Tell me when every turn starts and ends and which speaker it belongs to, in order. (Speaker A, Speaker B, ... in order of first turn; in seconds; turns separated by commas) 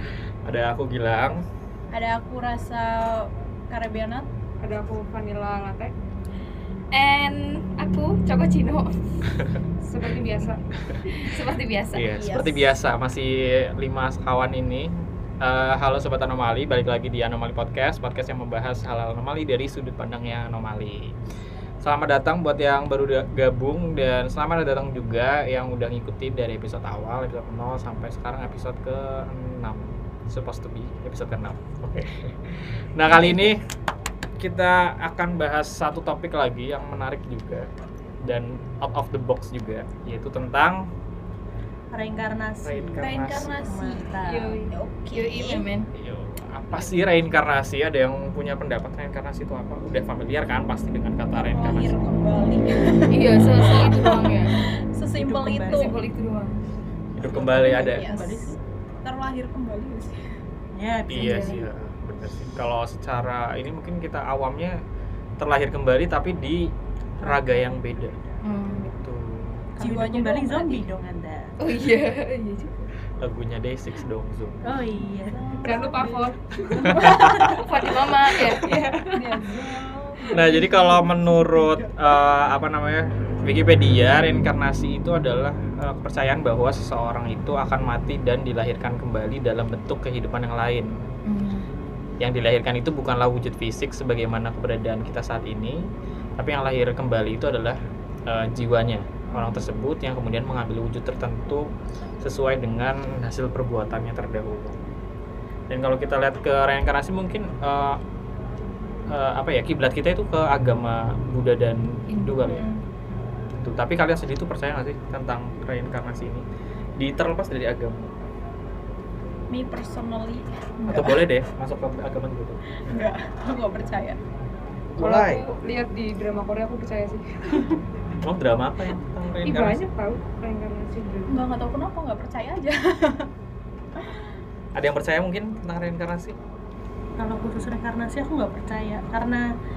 Speaker A: 0.5-1.4, Speaker B: 1.9-4.3, Speaker C: 4.6-5.9, Speaker D: 6.9-9.0, Speaker C: 9.8-10.6, Speaker D: 11.1-12.1, Speaker A: 11.9-21.2, Speaker B: 12.2-12.6, Speaker A: 21.8-33.6, Speaker A: 34.4-40.9, Speaker E: 41.9-44.6, Speaker A: 42.6-43.5, Speaker B: 43.0-44.0, Speaker D: 43.3-43.9, Speaker C: 44.2-44.7, Speaker B: 44.7-45.7, Speaker D: 45.1-45.9, Speaker A: 45.9-52.0, Speaker B: 51.3-54.3, Speaker D: 53.1-54.5, Speaker B: 54.9-56.0, Speaker E: 55.2-55.9, Speaker D: 55.7-56.6, Speaker A: 57.2-58.1, Speaker E: 57.3-58.6, Speaker B: 57.4-58.5, Speaker B: 59.0-60.3, Speaker E: 60.8-61.6, Speaker A: 61.1-64.8, Speaker D: 61.1-61.6, Speaker A: 65.4-69.7, Speaker E: 67.2-68.4, Speaker D: 68.4-68.9, Speaker E: 69.8-71.5, Speaker B: 69.8-70.9, Speaker D: 71.6-72.9, Speaker A: 73.2-74.7, Speaker E: 74.6-75.4, Speaker B: 75.2-77.6, Speaker C: 75.6-77.0, Speaker A: 76.8-77.6, Speaker D: 77.4-78.6, Speaker A: 78.5-79.2, Speaker B: 79.1-82.0, Speaker A: 80.3-90.9, Speaker D: 91.3-91.7, Speaker A: 92.2-101.7, Speaker A: 102.2-104.8, Speaker A: 105.7-108.0, Speaker A: 109.1-112.7, Speaker D: 112.1-112.7, Speaker B: 112.5-112.8, Speaker A: 113.6-116.5, Speaker A: 117.0-118.2, Speaker B: 119.5-121.2, Speaker A: 120.9-123.1, Speaker B: 122.9-124.2, Speaker A: 125.0-125.5, Speaker C: 125.0-127.7, Speaker A: 128.2-129.8, Speaker C: 129.4-131.4, Speaker B: 131.3-133.3, Speaker A: 134.8-136.4, Speaker E: 137.2-139.4